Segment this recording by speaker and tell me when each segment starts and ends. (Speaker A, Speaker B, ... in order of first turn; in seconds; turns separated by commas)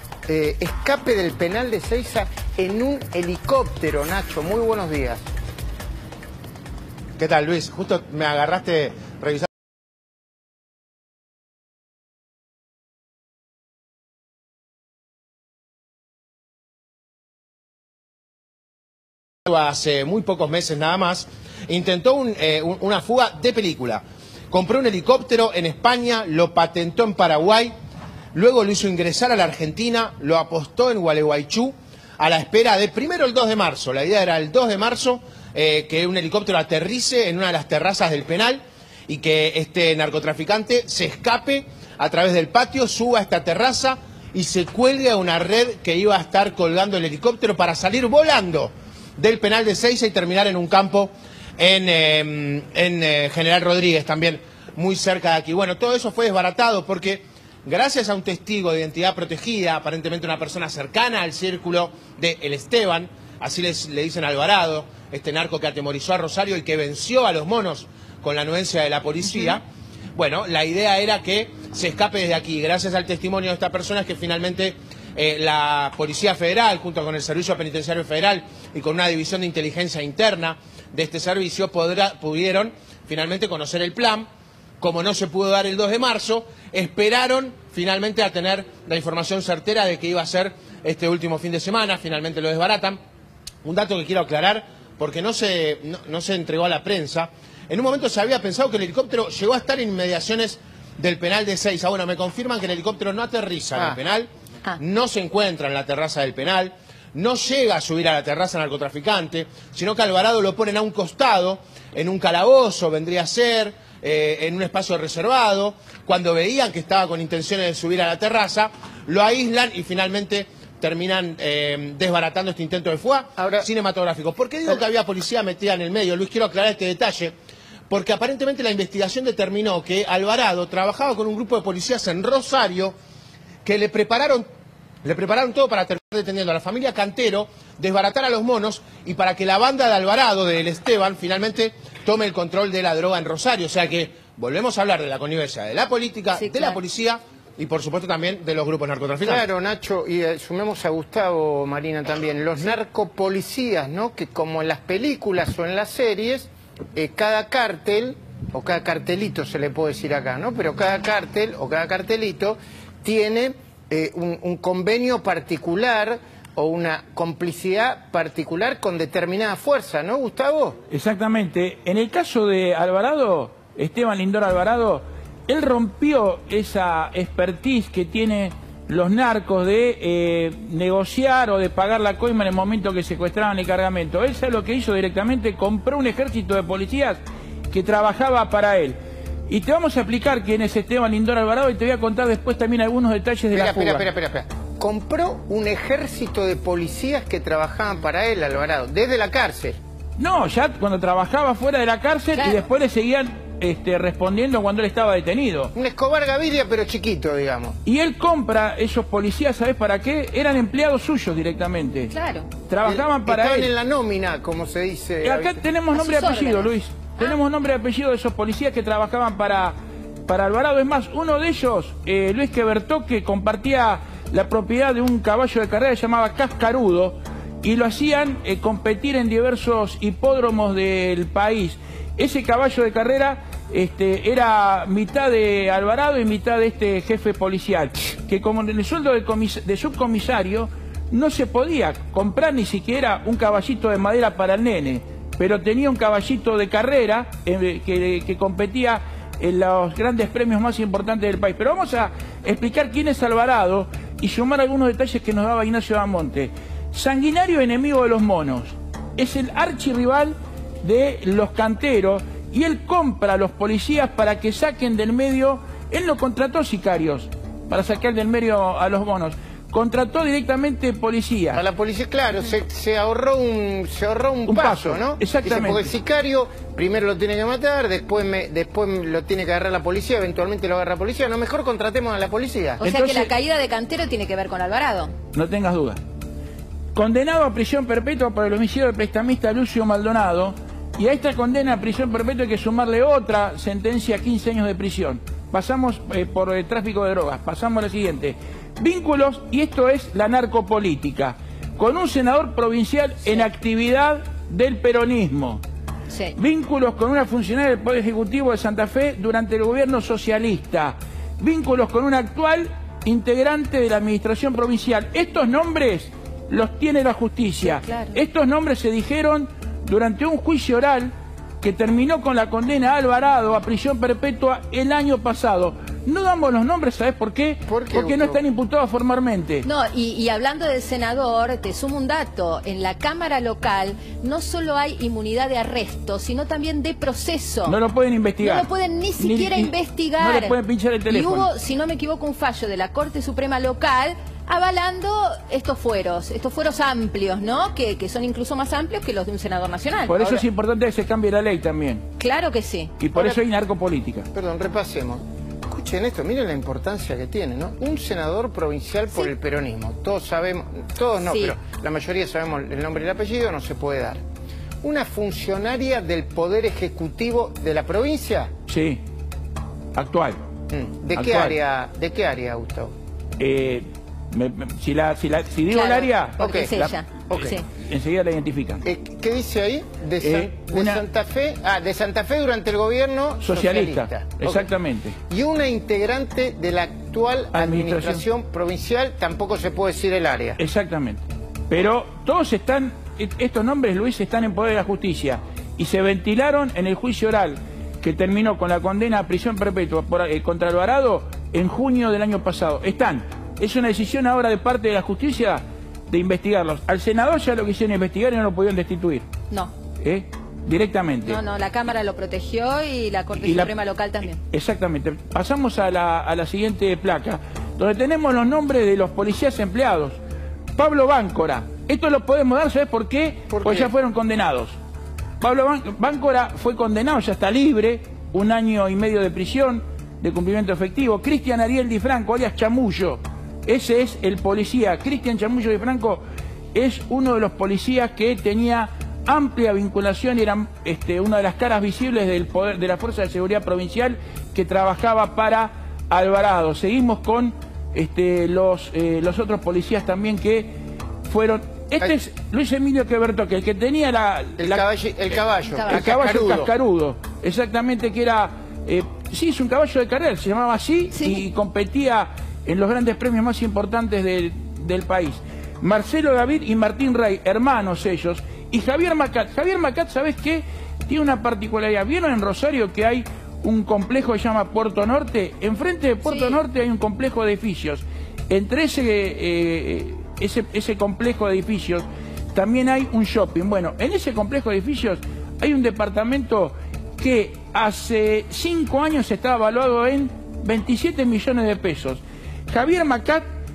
Speaker A: 0.3-5.2, Speaker B: 7.2-9.4, Speaker B: 19.5-27.7, Speaker B: 28.3-69.6, Speaker B: 70.2-84.3, Speaker B: 84.8-93.0, Speaker B: 93.6-127.3, Speaker A: 123.4-123.7, Speaker B: 127.9-132.9, Speaker B: 133.6-134.4, Speaker B: 135.0-149.4, Speaker C: 146.3-146.8, Speaker A: 149.2-170.8, Speaker D: 170.9-189.0, Speaker D: 189.5-194.1, Speaker A: 193.5-199.8, Speaker D: 200.2-205.7, Speaker C: 202.3-202.6, Speaker A: 205.7-207.8, Speaker D: 207.8-213.7, Speaker C: 212.1-212.5, Speaker A: 212.8-215.6, Speaker D: 215.2-271.6, Speaker C: 215.9-217.4, Speaker A: 271.5-282.8, Speaker D: 274.5-275.9, Speaker C: 282.8-285.1, Speaker D: 282.8-283.3, Speaker D: 285.3-286.0, Speaker D: 286.9-305.6, Speaker C: 306.1-306.4, Speaker D: 306.3-329.7, Speaker C: 317.6-318.2, Speaker A: 327.7-328.4, Speaker C: 329.6-337.8, Speaker D: 337.6-341.5, Speaker C: 338.4-340.6, Speaker C: 341.1-350.3, Speaker D: 350.1-352.1, Speaker C: 352.2-352.9, Speaker D: 353.0-354.3, Speaker A: 353.1-353.4, Speaker A: 354.3-364.2, Speaker C: 361.3-361.6, Speaker A: 364.8-368.5, Speaker D: 368.7-369.0, Speaker D: 369.9-370.4, Speaker A: 370.7-372.9, Speaker D: 371.1-371.5, Speaker D: 373.4-376.9, Speaker C: 375.7-377.6, Speaker A: 376.4-376.7, Speaker A: 377.3-377.6, Speaker D: 377.7-378.8, Speaker A: 378.8-384.7, Speaker D: 380.2-381.0, Speaker D: 383.4-385.2, Speaker A: 385.3-390.6, Speaker D: 387.5-388.2, Speaker D: 390.6-409.3, Speaker D: 410.0-411.4, Speaker C: 411.2-414.4, Speaker D: 413.4-413.7, Speaker D: 414.5-420.2, Speaker D: 420.7-424.8, Speaker A: 423.5-423.9, Speaker D: 425.4-436.2, Speaker D: 436.7-450.7, Speaker D: 451.2-454.8, Speaker A: 454.6-456.7, Speaker C: 455.7-456.1, Speaker D: 455.9-493.4, Speaker C: 461.1-461.4, Speaker C: 476.2-476.6